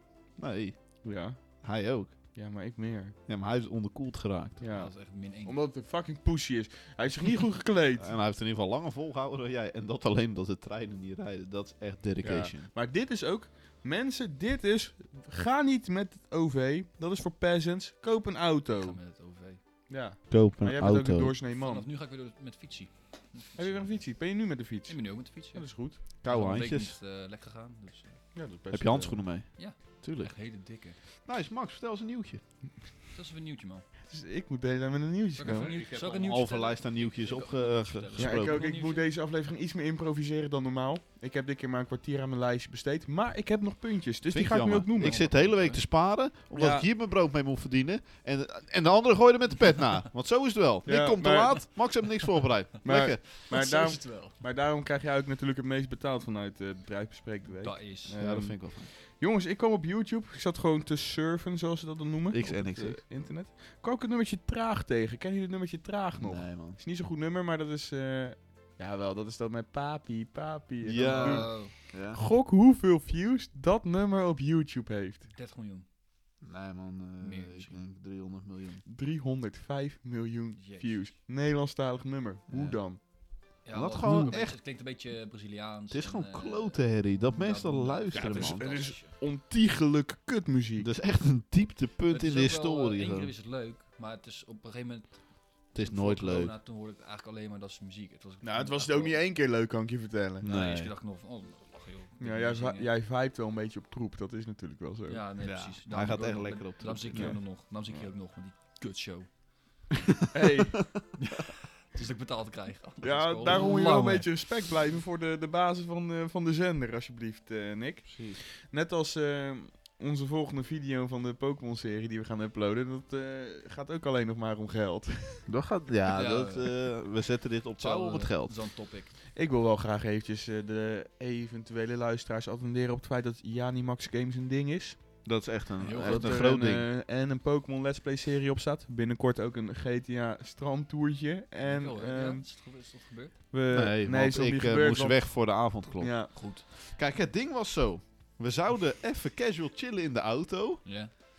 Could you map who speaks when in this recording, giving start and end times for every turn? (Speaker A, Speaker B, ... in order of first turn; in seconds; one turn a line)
Speaker A: 0.4-2.1
Speaker B: 1.0-1.4
Speaker B: 2.3-3.1
Speaker A: 3.3-4.6
Speaker B: 4.6-8.1
Speaker C: 4.7-5.6
Speaker A: 8.0-12.7
Speaker B: 12.2-19.0
Speaker C: 18.8-19.6
Speaker B: 19.9-21.9
Speaker A: 20.3-21.3
Speaker C: 21.5-24.2
Speaker B: 23.6-26.0
Speaker C: 24.9-28.2
Speaker A: 26.2-26.9
Speaker B: 28.3-29.3
Speaker A: 28.7-30.3
Speaker C: 29.6-31.0
Speaker A: 31.2-32.4
Speaker C: 33.1-33.8
Speaker B: 34.1-35.7
Speaker C: 35.4-39.1
Speaker A: 35.4-38.6
Speaker B: 38.2-45.2
Speaker A: 44.3-53.3
Speaker C: 45.0-45.8
Speaker B: 46.5-46.9
Speaker B: 50.9-51.6
Speaker B: 52.8-75.3
Speaker C: 53.4-54.3
Speaker C: 57.6-58.1
Speaker A: 58.2-58.9
Speaker A: 62.3-63.0
Speaker A: 66.2-66.8
Speaker A: 70.8-72.2
Speaker C: 70.9-71.7
Speaker C: 75.3-75.8
Speaker A: 76.4-78.8
Speaker C: 77.2-77.8
Speaker B: 78.8-83.0
Speaker C: 80.6-81.1
Speaker A: 82.5-82.8
Speaker C: 83.6-89.1
Speaker A: 83.7-84.6
Speaker B: 84.0-84.4
Speaker A: 85.9-88.6
Speaker B: 88.1-90.9
Speaker A: 90.8-93.3
Speaker C: 92.1-99.2
Speaker A: 95.7-96.5
Speaker B: 98.4-100.5
Speaker A: 100.4-100.9
Speaker C: 100.4-102.9
Speaker B: 102.2-105.2
Speaker C: 105.1-109.3
Speaker A: 105.4-107.4
Speaker B: 107.1-108.1
Speaker A: 110.1-111.4
Speaker B: 110.3-110.8
Speaker C: 111.2-114.6
Speaker B: 113.0-125.5
Speaker A: 118.1-118.4
Speaker A: 125.5-128.6
Speaker C: 126.1-127.0
Speaker C: 127.8-129.2
Speaker B: 129.3-135.1
Speaker A: 135.2-136.9
Speaker C: 135.8-136.5
Speaker B: 136.0-142.4
Speaker C: 141.7-143.4
Speaker B: 143.5-146.3
Speaker A: 143.7-150.8
Speaker C: 146.3-146.6
Speaker C: 150.8-151.1